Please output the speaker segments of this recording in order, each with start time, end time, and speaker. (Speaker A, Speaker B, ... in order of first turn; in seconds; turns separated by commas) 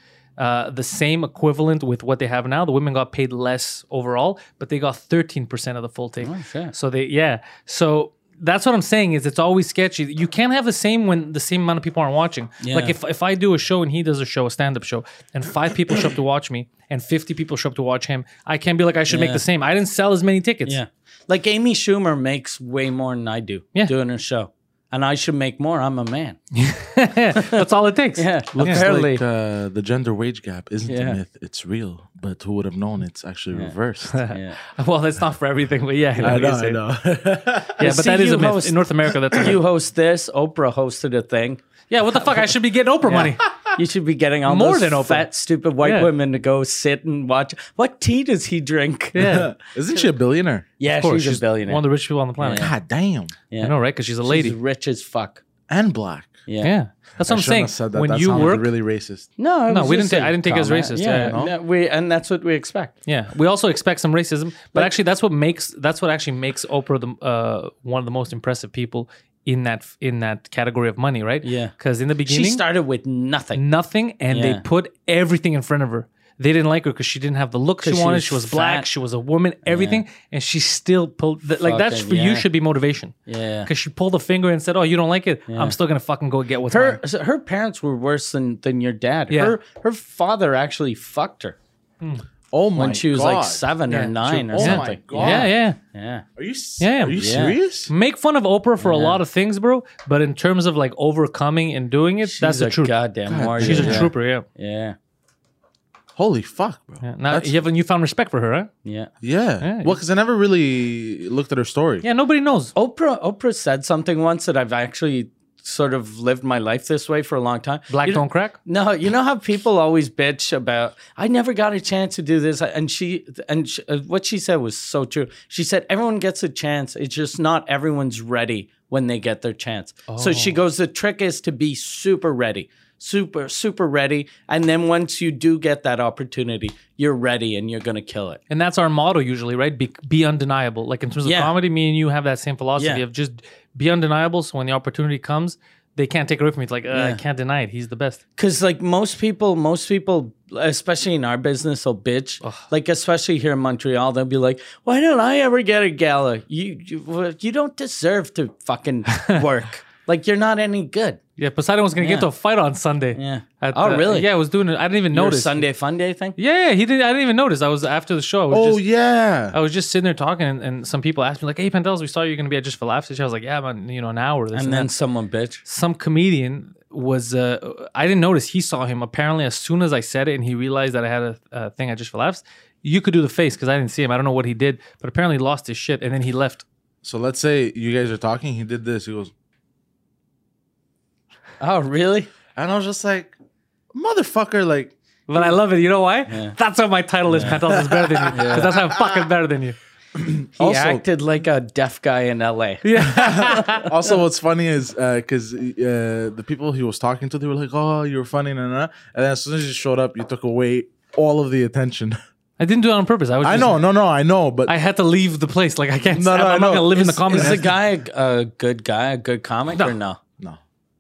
Speaker A: 0.4-20.8, Speaker B: 6.2-6.7, Speaker B: 12.6-13.0, Speaker B: 19.1-19.4, Speaker B: 20.7-26.4, Speaker A: 26.5-28.9, Speaker B: 27.4-27.6, Speaker B: 28.2-29.2, Speaker C: 28.5-34.2, Speaker B: 30.9-31.2, Speaker A: 34.1-36.8, Speaker B: 34.3-34.6, Speaker C: 36.2-37.8, Speaker A: 37.8-39.6, Speaker B: 37.8-41.6, Speaker A: 41.9-43.5, Speaker B: 43.0-49.4, Speaker A: 44.5-45.3, Speaker A: 45.8-46.1, Speaker A: 49.1-49.5, Speaker C: 49.2-50.7, Speaker B: 50.8-51.8, Speaker A: 51.0-52.7, Speaker B: 52.4-52.7, Speaker C: 52.6-53.4, Speaker B: 53.5-55.4, Speaker A: 53.6-54.6, Speaker C: 55.7-56.4, Speaker B: 56.5-56.8, Speaker A: 56.6-58.7, Speaker C: 57.2-59.3, Speaker B: 59.4-62.9, Speaker A: 59.7-61.4, Speaker C: 61.1-61.5, Speaker A: 63.1-72.6, Speaker B: 71.4-71.7, Speaker B: 72.2-73.6, Speaker A: 73.5-87.0, Speaker B: 74.3-74.6, Speaker B: 77.8-78.9, Speaker B: 79.7-80.0, Speaker B: 81.6-82.5, Speaker B: 83.3-83.7, Speaker B: 85.5-85.8, Speaker B: 86.7-91.6, Speaker A: 89.3-89.6, Speaker C: 92.5-95.5, Speaker B: 92.8-96.2, Speaker A: 93.9-95.8, Speaker C: 96.4-97.9, Speaker A: 96.8-103.0, Speaker B: 97.2-97.6, Speaker B: 98.8-99.2, Speaker B: 102.3-105.0, Speaker C: 103.3-104.1, Speaker A: 103.6-104.5, Speaker C: 106.2-107.6, Speaker A: 107.0-108.7, Speaker B: 108.8-109.1, Speaker C: 109.2-112.0, Speaker A: 109.6-110.0, Speaker A: 112.0-112.7, Speaker B: 112.8-138.4, Speaker A: 117.9-118.6, Speaker A: 130.1-130.6, Speaker A: 138.5-148.2, Speaker B: 141.2-141.5, Speaker B: 146.9-147.2, Speaker B: 148.4-161.2, Speaker A: 161.4-165.6, Speaker B: 162.0-162.3, Speaker B: 163.2-164.3, Speaker B: 165.1-166.4, Speaker A: 166.4-168.8, Speaker C: 168.5-169.6, Speaker A: 169.5-174.9, Speaker B: 174.5-175.6, Speaker A: 175.7-186.6, Speaker C: 187.0-189.3, Speaker B: 191.6-192.3, Speaker C: 192.6-193.3, Speaker C: 193.9-194.9, Speaker A: 195.3-199.8, Speaker B: 196.3-196.6, Speaker B: 197.3-197.6, Speaker C: 197.6-199.2, Speaker B: 198.3-198.7, Speaker C: 200.2-201.0, Speaker B: 200.6-203.9, Speaker A: 202.8-203.9, Speaker C: 203.0-212.2, Speaker A: 212.6-213.8, Speaker C: 213.4-214.7, Speaker A: 214.7-217.8, Speaker C: 216.1-217.1, Speaker B: 216.9-220.2